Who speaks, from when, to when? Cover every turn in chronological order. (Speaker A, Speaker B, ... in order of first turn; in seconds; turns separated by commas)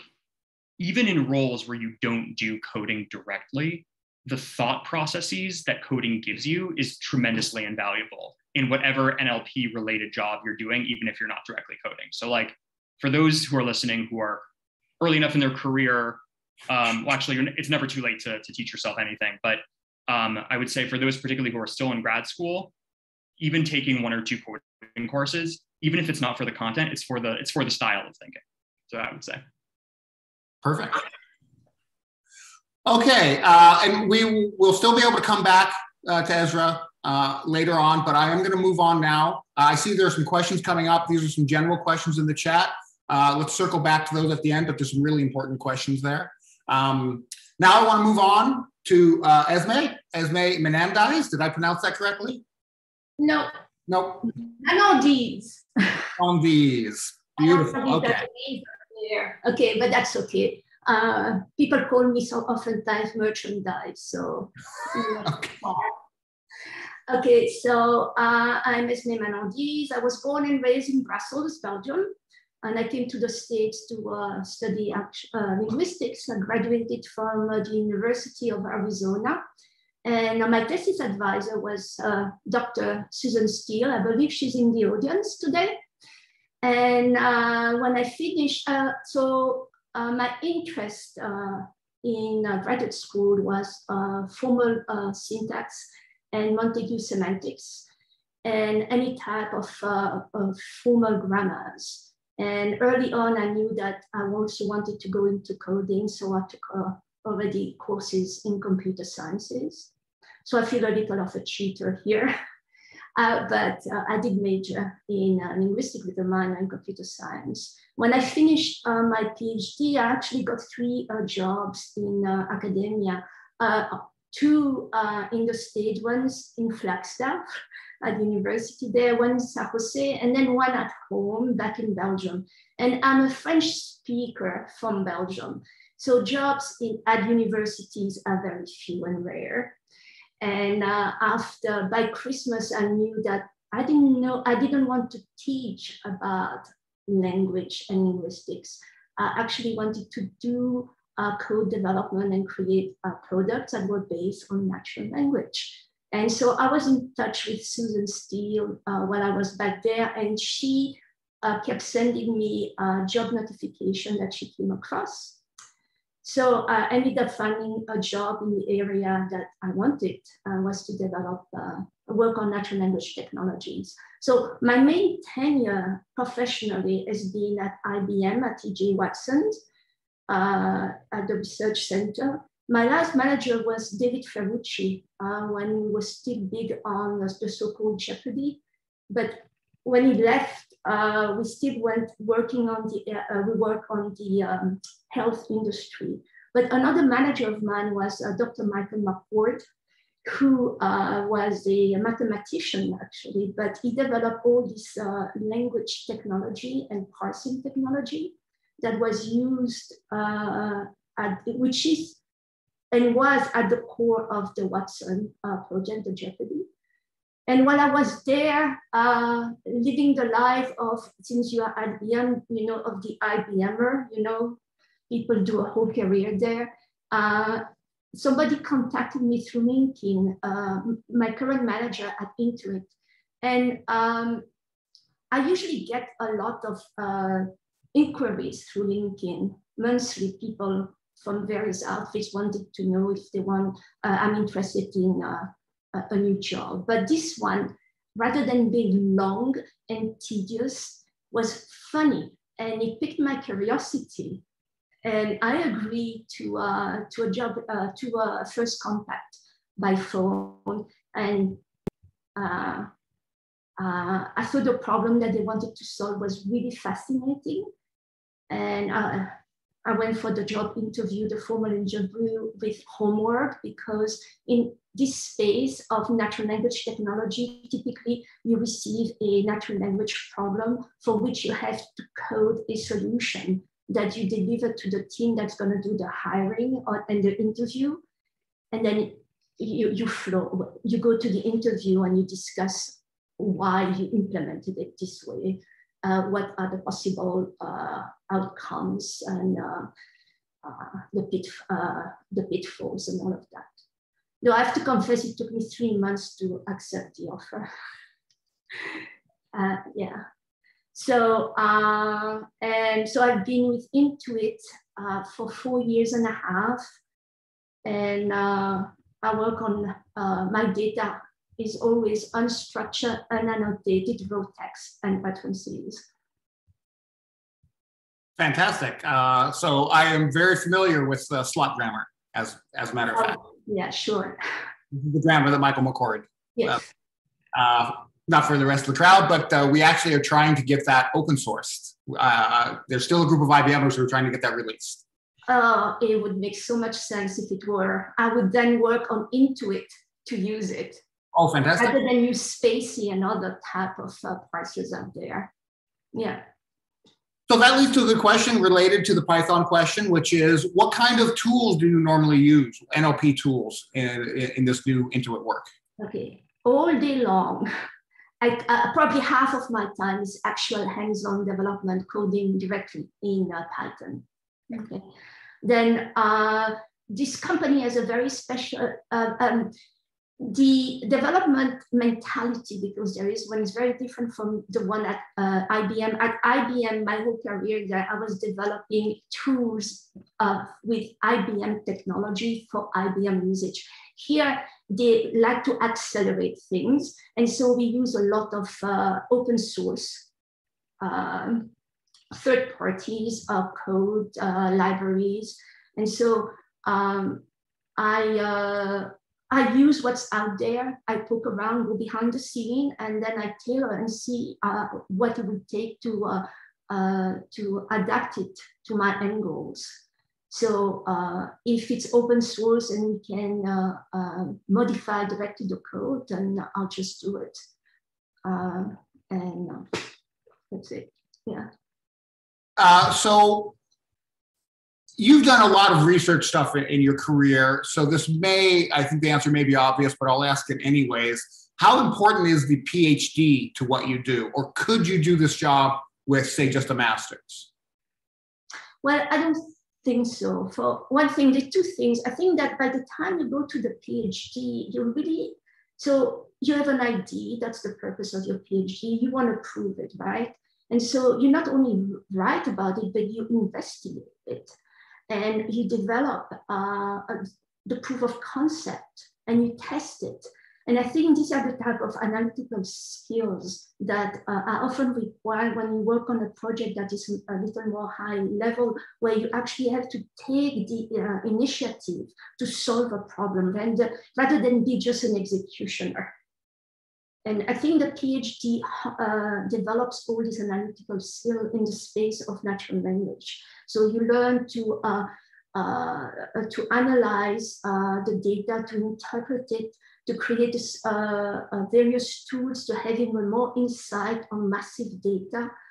Speaker A: 0.8-14.4, Speaker A: 15.0-22.7, Speaker A: 23.4-29.4, Speaker B: 30.6-31.0, Speaker B: 32.8-52.4, Speaker C: 53.2-53.5, Speaker B: 53.9-54.3, Speaker C: 54.6-56.0, Speaker B: 56.2-58.2, Speaker C: 57.4-65.3, Speaker B: 65.2-65.8, Speaker C: 67.1-79.4, Speaker C: 80.0-85.8, Speaker C: 86.6-97.9, Speaker C: 98.4-109.9, Speaker C: 110.4-112.3, Speaker C: 113.2-127.4, Speaker C: 128.0-139.8, Speaker C: 140.4-165.4, Speaker C: 166.2-179.6, Speaker C: 180.3-199.6, Speaker C: 200.2-212.2, Speaker C: 212.9-216.7, Speaker C: 217.5-224.6, Speaker C: 225.1-232.9, Speaker C: 233.4-234.4, Speaker C: 235.3-254.4, Speaker C: 255.0-261.6, Speaker C: 262.4-262.9, Speaker C: 263.8-267.7, Speaker C: 268.5-269.3, Speaker C: 269.8-288.0, Speaker C: 288.7-299.9, Speaker C: 300.6-303.7, Speaker C: 304.4-307.7, Speaker C: 309.5-310.2, Speaker C: 310.9-316.8, Speaker C: 317.8-326.1, Speaker B: 328.4-333.4, Speaker C: 333.1-334.4, Speaker B: 334.9-336.8, Speaker C: 336.6-336.8, Speaker B: 337.5-345.0, Speaker C: 345.5-351.0, Speaker B: 351.3-351.9, Speaker C: 351.8-355.5, Speaker C: 356.1-356.4, Speaker B: 357.5-365.7, Speaker C: 366.0-367.7, Speaker C: 368.4-375.1, Speaker C: 375.6-379.7, Speaker C: 380.4-400.3, Speaker C: 401.0-401.7, Speaker C: 402.3-407.4, Speaker C: 408.0-427.6, Speaker C: 428.4-430.0, Speaker C: 430.7-431.7, Speaker B: 432.8-433.7, Speaker B: 435.2-447.7, Speaker C: 449.0-464.7, Speaker C: 465.3-486.3, Speaker C: 487.4-505.7